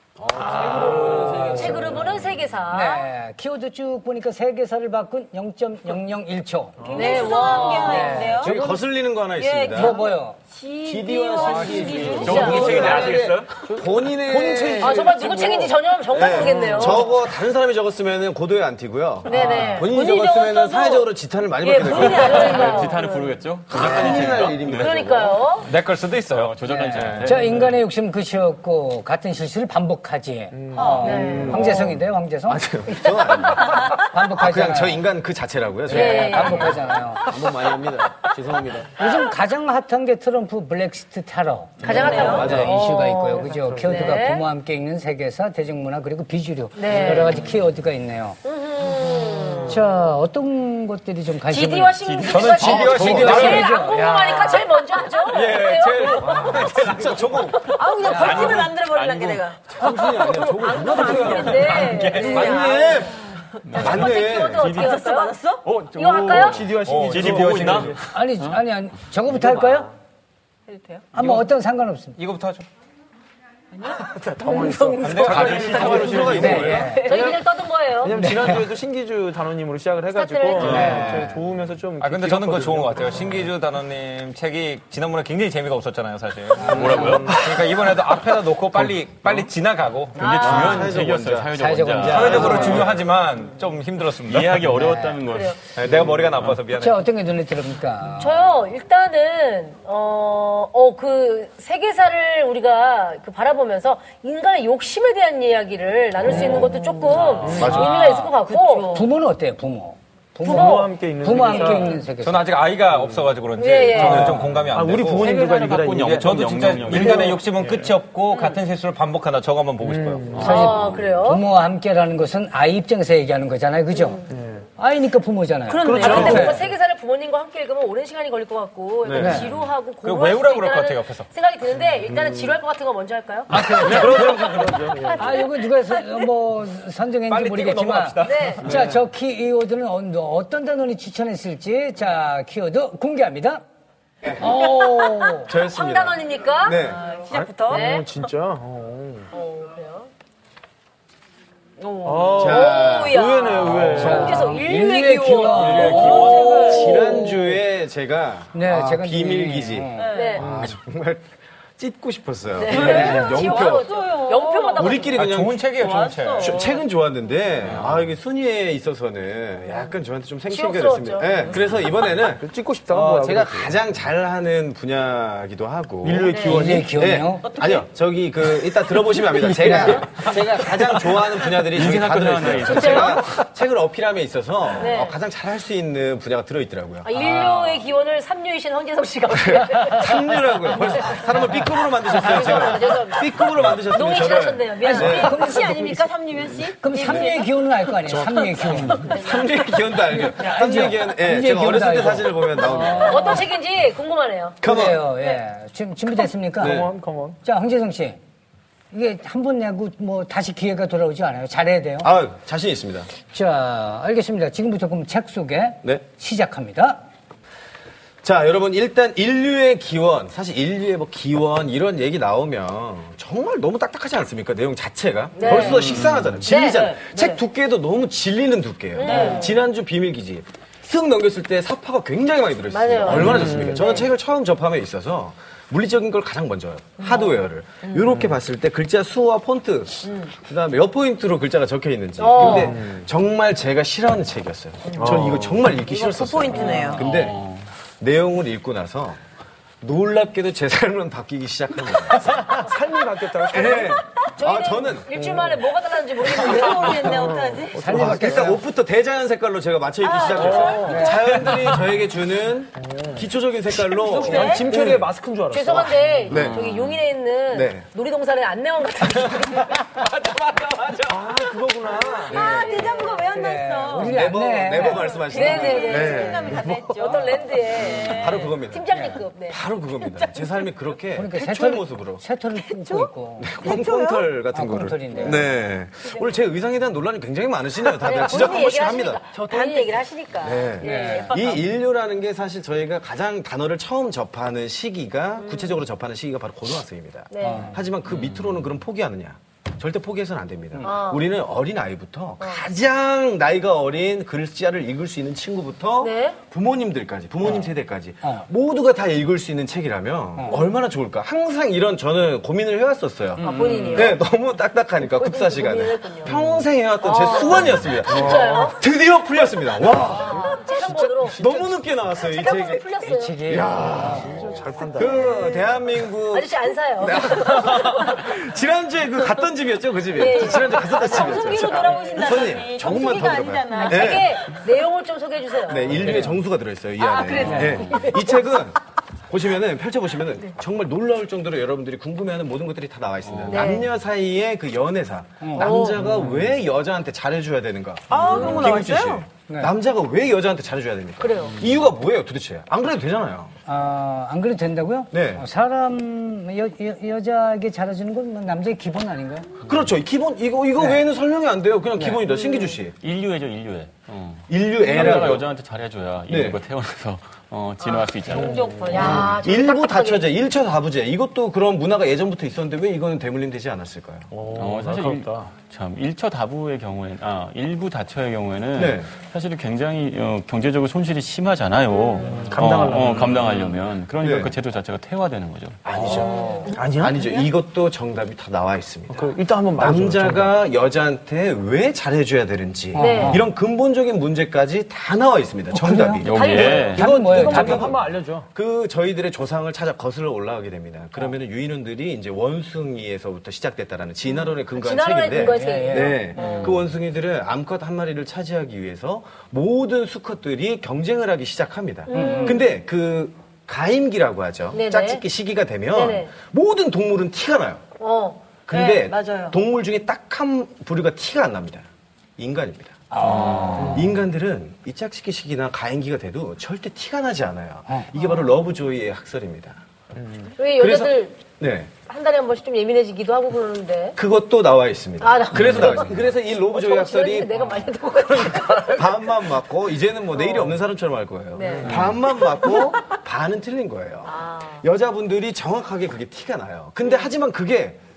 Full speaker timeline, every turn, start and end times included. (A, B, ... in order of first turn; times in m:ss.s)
0:00.2-0:02.2 A
0:00.4-0:01.9 B
0:01.2-0:03.0 C
0:02.7-0:06.9 B
0:06.8-0:07.4 D
0:06.8-0:08.6 E
0:06.9-0:08.3 C
0:07.6-0:08.8 B
0:08.3-0:10.0 A
0:09.4-0:13.2 E
0:09.7-0:10.4 B
0:10.8-0:22.8 A
0:11.4-0:13.5 F
0:12.1-0:14.0 G
0:12.2-0:12.9 C
0:13.7-0:15.4 D
0:14.8-0:17.1 C
0:16.3-0:17.0 E
0:19.2-0:20.0 C
0:19.3-0:19.8 B
0:19.9-0:21.1 E
0:21.6-0:23.4 E
0:21.6-0:23.2 C
0:22.1-0:25.0 G
0:23.7-0:25.4 A
0:24.0-0:25.7 C
0:25.6-0:27.4 F
0:26.3-0:27.7 G
0:26.6-0:33.0 B
0:30.5-0:32.0 D
0:30.8-0:31.5 E
0:31.0-0:31.8 C
0:32.5-0:39.1 A
0:33.6-0:33.9 E
0:33.7-0:35.0 B
0:35.8-0:37.3 B
0:35.9-0:36.9 C
0:39.0-0:48.4 B
0:41.8-0:44.4 C
0:41.8-0:42.4 D
0:41.9-0:42.5 E
0:41.9-0:42.7 A
0:43.3-0:44.1 D
0:46.8-0:47.4 C
0:47.3-0:47.6 G
0:48.4-0:49.8 C
0:48.8-0:49.7 E
0:49.6-0:54.6 B
0:51.5-0:56.8 C
0:52.0-0:52.7 G
0:52.3-0:53.8 F
0:52.7-0:53.6 A
0:55.3-1:02.8 F
0:56.2-0:57.7 A
0:57.8-0:59.8 E
0:58.0-0:58.6 B
0:59.8-1:03.2 A
1:00.3-1:03.1 C
1:00.6-1:03.2 E
1:03.7-1:04.1 G
1:03.7-1:04.6 A
1:03.7-1:05.4 C
1:03.8-1:05.7 E
1:05.6-1:08.0 D
1:05.9-1:08.6 G
1:05.9-1:06.7 C
1:06.5-1:08.0 F
1:08.1-1:09.9 B
1:10.7-1:11.1 E
1:11.1-1:11.4 F
1:11.1-1:12.2 B
1:12.2-1:12.6 F
1:13.8-1:16.2 E
1:14.0-1:16.7 D
1:15.0-1:16.8 F
1:15.2-1:17.4 A
1:16.3-1:17.1 B
1:16.7-1:18.3 C
1:17.9-1:23.4 D
1:18.2-1:18.6 B
1:20.1-1:21.0 C
1:20.6-1:21.3 B
1:20.6-1:21.1 F
1:22.0-1:30.7 F
1:26.6-1:27.2 B
1:26.6-1:27.4 G
1:27.0-1:27.4 D
1:28.8-1:29.4 G
1:30.1-1:32.9 G
1:30.2-1:30.6 C
1:30.4-1:33.0 A
1:31.5-1:32.8 B
1:32.1-1:34.9 F
1:34.2-1:36.6 G
1:34.7-1:35.2 B
1:35.2-1:35.6 C
1:35.7-1:37.1 F
1:36.7-1:38.4 B
1:38.2-1:49.0 C
1:46.2-1:49.1 E
1:47.4-1:47.8 D
1:47.6-1:48.0 A
1:48.9-1:52.6 B
1:50.4-1:51.9 C
1:50.4-1:52.0 D
1:52.2-2:00.4 F
1:52.9-1:53.3 D
1:53.6-1:54.4 C
1:54.0-1:57.9 D
1:54.1-1:57.4 G
1:58.3-1:58.6 E
1:59.8-2:00.5 D
2:00.3-2:01.4 C
2:00.3-2:04.2 B
2:00.5-2:01.0 G
2:04.3-2:04.7 D
2:04.8-2:06.6 B
2:05.7-2:06.5 E
2:05.8-2:14.0 C
2:05.8-2:06.6 D
2:09.0-2:09.5 A
2:09.1-2:09.5 B
2:10.0-2:11.3 F
2:13.5-2:23.6 B
2:13.5-2:15.1 F
2:13.8-2:15.2 D
2:14.6-2:16.0 C
2:17.3-2:18.9 F
2:18.2-2:18.6 C
2:24.4-2:25.5 B
2:25.4-2:27.0 A
2:25.5-2:26.8 C
2:26.7-2:28.0 E
2:27.3-2:29.3 D
2:27.7-2:28.1 C
2:29.3-2:30.1 C
2:31.8-2:32.7 E
2:32.0-2:34.4 D
2:32.4-2:33.3 A
2:32.4-2:36.8 C
2:33.9-2:37.0 B
2:34.0-2:34.3 A
2:35.5-2:36.7 F
2:35.5-2:37.3 E
2:36.6-2:44.0 A
2:38.5-2:40.1 B
2:40.0-2:40.5 E
2:40.1-2:40.4 C
2:40.4-2:40.7 D
2:42.6-2:45.1 C
2:42.6-2:46.8 E
2:42.7-2:43.3 B
2:44.8-2:45.6 A
2:45.1-2:46.6 F
2:46.4-3:07.1 A
2:47.6-2:48.1 G
2:50.5-2:51.4 C
2:52.2-2:53.8 D
2:56.0-2:57.0 D
2:56.3-2:56.6 C
2:56.4-2:57.5 B
2:57.4-2:57.9 E
2:59.4-2:59.8 D
2:59.5-3:00.3 B
3:01.5-3:03.3 G
3:02.6-3:03.2 C
3:04.8-3:05.2 C
3:07.0-3:13.3 C
3:07.1-3:07.8 B
3:09.3-3:15.4 A
3:13.9-3:16.0 C
3:14.8-3:16.0 B
3:15.0-3:17.5 E
3:16.8-3:19.0 B
3:18.1-3:19.5 C
3:18.2-3:19.2 D
3:19.1-3:23.4 A
3:20.3-3:23.4 B
3:22.9-3:24.6 C
3:24.6-3:25.0 A
3:24.6-3:26.9 B
3:26.6-3:27.4 D
3:26.6-3:26.9 A
3:27.4-3:28.2 B
3:28.9-3:32.1 B
3:32.0-3:33.1 A
3:33.3-3:37.0 B
3:38.2-4:07.4 A
3:45.4-3:46.9 C
3:45.4-3:45.8 E
3:45.8-3:46.4 G
3:46.5-3:47.4 E
3:49.0-3:49.6 C
3:49.0-3:49.6 E
3:52.7-3:54.0 C
3:53.0-3:54.1 E
3:53.1-3:53.8 D
3:57.0-3:58.1 E
4:00.0-4:00.3 E
4:02.2-4:02.8 C
4:02.4-4:03.0 D
4:04.9-4:07.1 E
4:05.0-4:05.7 D
4:06.7-4:07.7 G
4:08.0-4:09.2 A
4:09.8-4:12.6 A
4:12.5-4:14.0 D
4:13.5-4:15.2 A
4:14.4-4:17.2 C
4:15.2-4:15.5 D
4:16.2-4:17.9 E
4:16.8-4:18.6 D
4:17.7-4:18.6 B
4:17.9-4:25.1 A
4:20.0-4:21.2 E
4:20.3-4:21.1 D
4:20.9-4:21.1 B
4:21.3-4:21.8 F
4:22.8-4:23.2 D
4:24.0-4:24.7 E
4:24.2-4:26.0 D
4:25.5-4:29.8 C
4:26.3-4:27.0 G
4:26.3-4:26.6 A
4:27.5-4:27.8 A
4:29.2-4:31.2 F
4:31.0-4:32.6 D
4:31.4-4:32.8 A
4:32.3-4:38.5 E
4:32.4-4:35.1 B
4:33.9-4:37.2 A
4:35.3-4:39.6 C
4:37.7-4:42.2 A
4:40.0-4:40.5 E
4:41.1-4:43.5 B
4:42.7-4:43.1 E
4:43.4-4:49.2 A
4:43.6-4:44.3 E
4:44.5-4:45.5 B
4:48.0-4:50.1 C
4:48.0-4:51.6 E
4:50.4-5:20.5 A
4:50.8-4:51.3 B
4:50.8-4:51.4 C
4:55.4-4:55.8 C
4:57.3-4:57.7 C
4:57.4-4:57.8 B
4:58.0-4:58.7 G
5:00.8-5:01.3 C
5:02.4-5:02.6 C
5:06.0-5:06.4 C
5:13.4-5:14.1 B
5:13.4-5:14.2 E
5:13.5-5:14.1 C
5:15.2-5:16.3 C
5:17.0-5:18.8 C
5:18.1-5:18.7 D
5:20.0-5:23.4 C
5:21.4-5:22.9 A
5:23.0-5:24.4 B
5:23.4-5:24.4 A
5:23.7-5:25.4 D
5:24.8-5:28.3 C
5:24.9-5:34.4 A
5:30.1-5:32.6 C
5:30.3-5:34.4 E
5:33.7-5:36.2 C
5:35.6-5:53.5 A
5:36.0-5:36.4 B
5:37.0-5:38.2 E
5:37.3-5:38.2 C
5:37.4-5:37.8 B
5:43.3-5:43.6 G
5:43.5-5:43.9 C
5:45.4-5:45.8 B
5:45.6-5:46.0 C
5:48.1-5:49.2 E
5:48.2-5:48.8 D
5:48.2-5:48.9 C
5:51.2-5:51.6 C
5:53.7-5:59.5 B
5:55.1-5:55.4 A
5:59.6-6:02.9 A
6:03.0-6:08.5 G
6:04.5-6:05.4 A
6:06.3-6:06.6 A
6:07.8-6:09.3 E
6:08.4-6:09.0 D
6:08.9-6:10.3 C
6:09.0-6:14.3 A
6:14.3-6:15.5 D
6:14.5-6:25.9 G
6:18.7-6:19.1 A
6:22.3-6:23.6 D
6:24.2-6:24.6 A
6:25.8-6:36.4 A
6:26.1-6:27.4 E
6:26.1-6:26.6 C
6:26.3-6:26.7 B
6:26.7-6:27.2 D
6:29.1-6:30.6 D
6:32.9-6:33.4 C
6:32.9-6:33.4 B
6:35.7-6:37.9 B
6:36.2-6:37.1 G
6:36.3-6:37.8 C
6:36.8-6:38.5 D
6:38.5-6:57.8 A
6:44.7-6:46.8 C
6:45.4-6:46.6 B
6:46.4-6:46.8 G
6:52.1-6:52.7 C
6:52.1-6:52.6 B
6:54.7-6:55.2 C
6:55.9-6:56.3 C
6:58.0-6:58.4 C
6:58.6-7:01.8 A
6:58.7-6:59.6 E
7:02.4-7:09.8 A
7:03.1-7:04.1 B
7:03.8-7:04.0 D
7:10.1-7:10.5 D
7:10.6-7:11.4 C
7:10.8-7:11.9 A
7:12.1-7:14.2 C
7:14.2-7:17.5 A
7:15.2-7:19.3 C
7:18.5-7:28.0 A
7:20.4-7:20.6 C
7:21.5-7:22.1 C
7:24.3-7:24.8 C